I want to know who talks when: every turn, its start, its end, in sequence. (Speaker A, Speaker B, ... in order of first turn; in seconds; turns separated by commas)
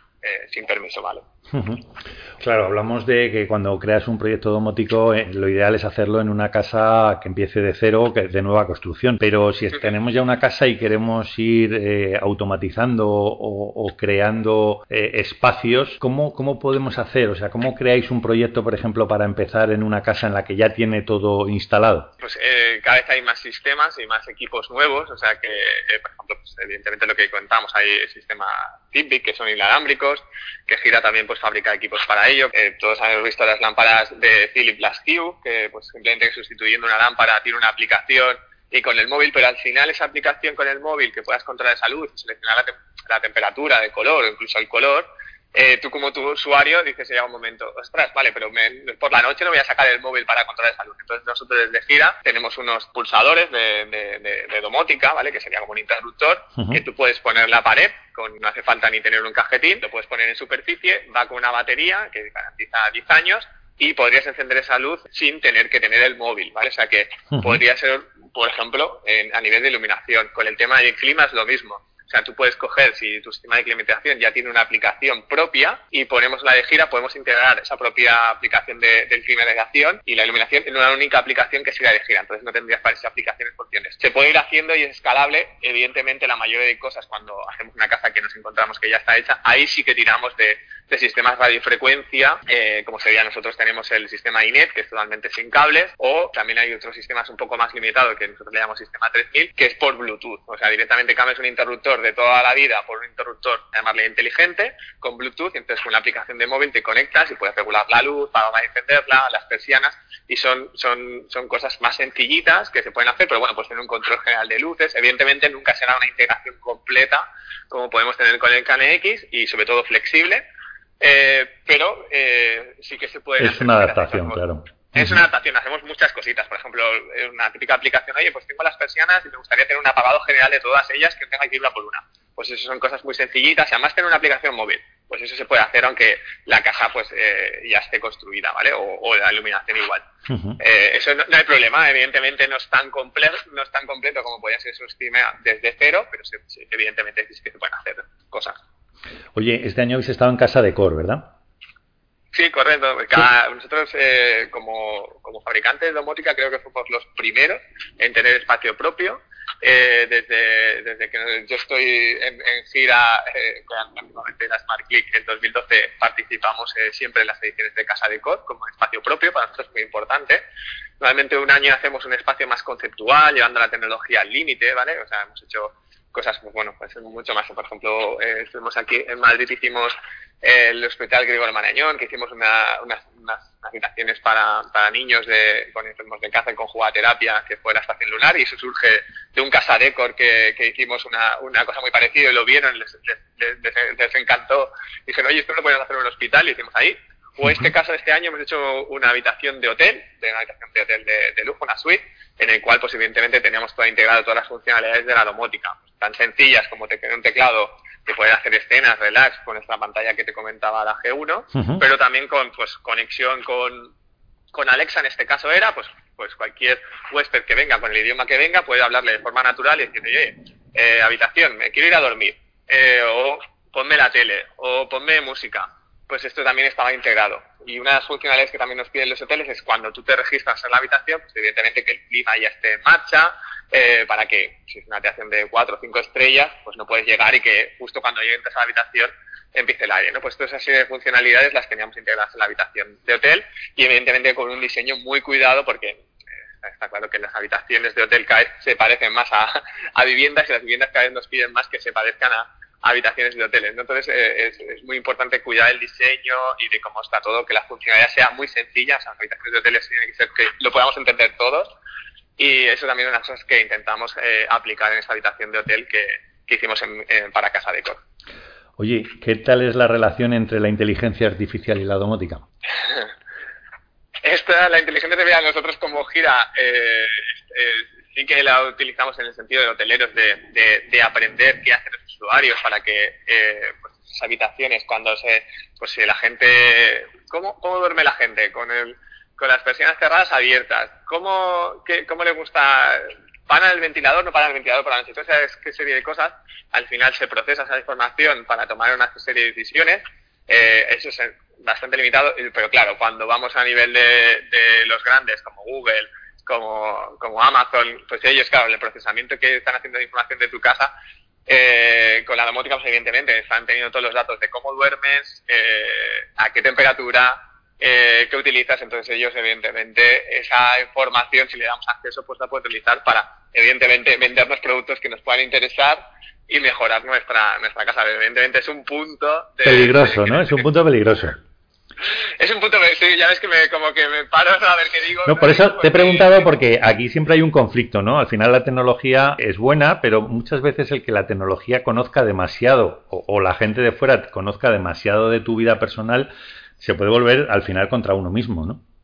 Speaker A: 0.2-1.2, Speaker B: 1.5-22.1, Speaker A: 22.2-120.4, Speaker B: 67.3-67.6, Speaker A: 121.0-140.1, Speaker B: 123.4-125.2, Speaker B: 140.3-140.6, Speaker A: 140.6-148.6, Speaker B: 149.3-151.3, Speaker A: 152.3-170.4, Speaker A: 171.0-213.9, Speaker B: 211.5-211.8, Speaker A: 214.5-246.0, Speaker A: 246.6-261.7, Speaker A: 262.4-268.0, Speaker B: 268.8-272.4, Speaker A: 272.8-273.1, Speaker A: 274.2-310.9, Speaker A: 311.5-330.6, Speaker B: 329.6-331.4, Speaker A: 332.0-336.5, Speaker B: 335.3-348.8